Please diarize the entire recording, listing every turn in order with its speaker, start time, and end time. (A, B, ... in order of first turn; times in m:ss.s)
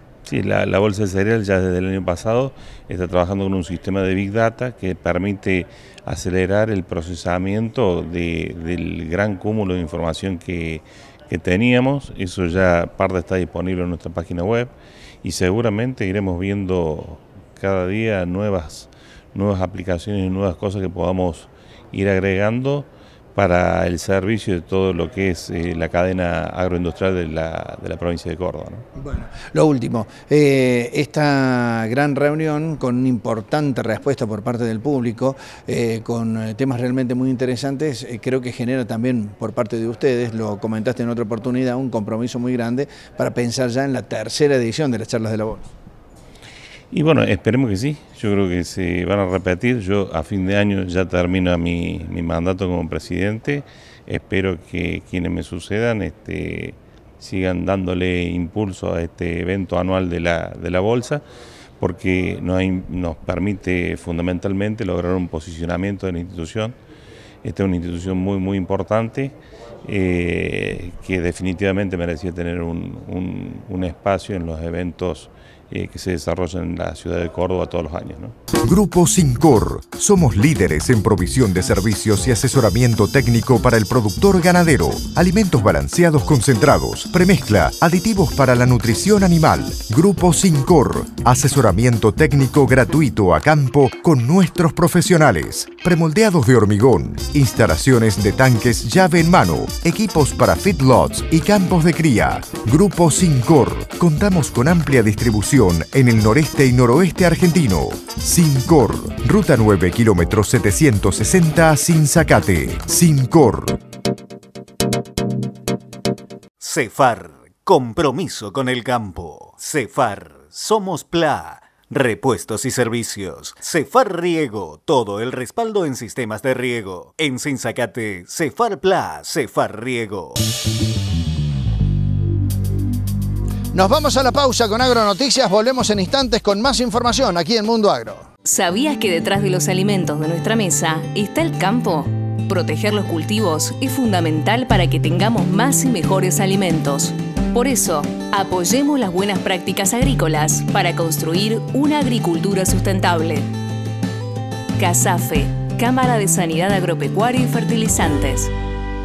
0:00.2-0:28.9 A
0:29.0-0:45.7 B
0:46.9-1:01.2 A
1:01.8-1:06.8 A
1:07.4-1:18.4 A
1:18.6-1:53.8 C
1:56.6-2:10.4 D
2:13.7-2:18.3 B
2:18.4-2:33.5 E
2:34.8-2:38.5 E